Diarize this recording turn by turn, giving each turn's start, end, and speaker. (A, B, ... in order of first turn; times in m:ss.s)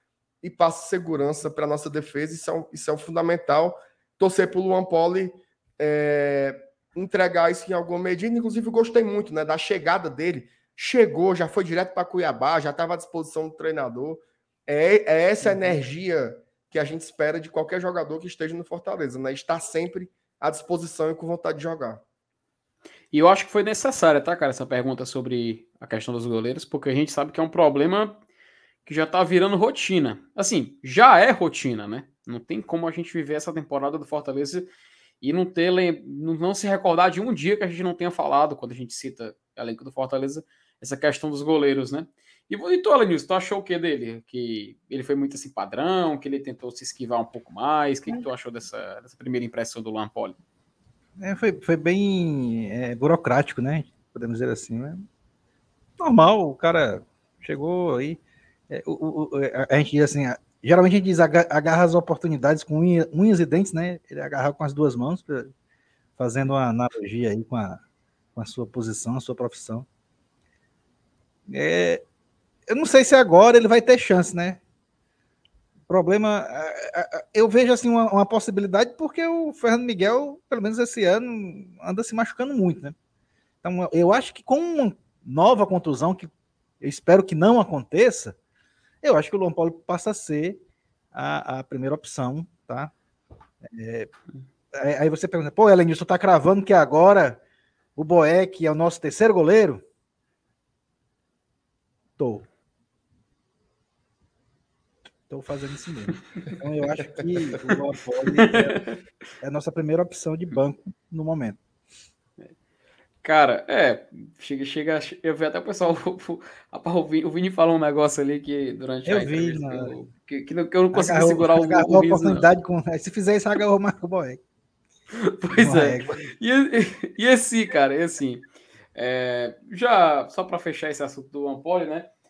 0:00.4-0:22.0 A
0:23.1-0:28.2 B
0:28.8-0:34.7 B
0:35.2-0:50.4 B
0:51.2-0:55.0 C
0:56.0-1:05.5 C
1:06.2-1:07.8 C
1:08.4-1:09.8 C
1:11.5-1:12.0 C
1:12.7-1:14.6 C
1:15.9-1:22.9 C
1:23.6-1:28.4 C
1:29.0-1:30.6 C
1:31.1-1:32.9 C
1:33.6-1:34.1 C
1:34.7-1:37.4 C
1:38.0-1:39.8 C
1:42.2-1:42.5 C
1:45.3-1:48.8 C
1:48.4-1:49.0 B
1:49.4-1:51.6 C
1:53.2-2:02.5 B
1:59.0-1:59.9 C
2:00.9-2:04.4 C
2:05.1-2:08.4 B
2:05.5-2:06.2 C
2:09.0-2:12.1 B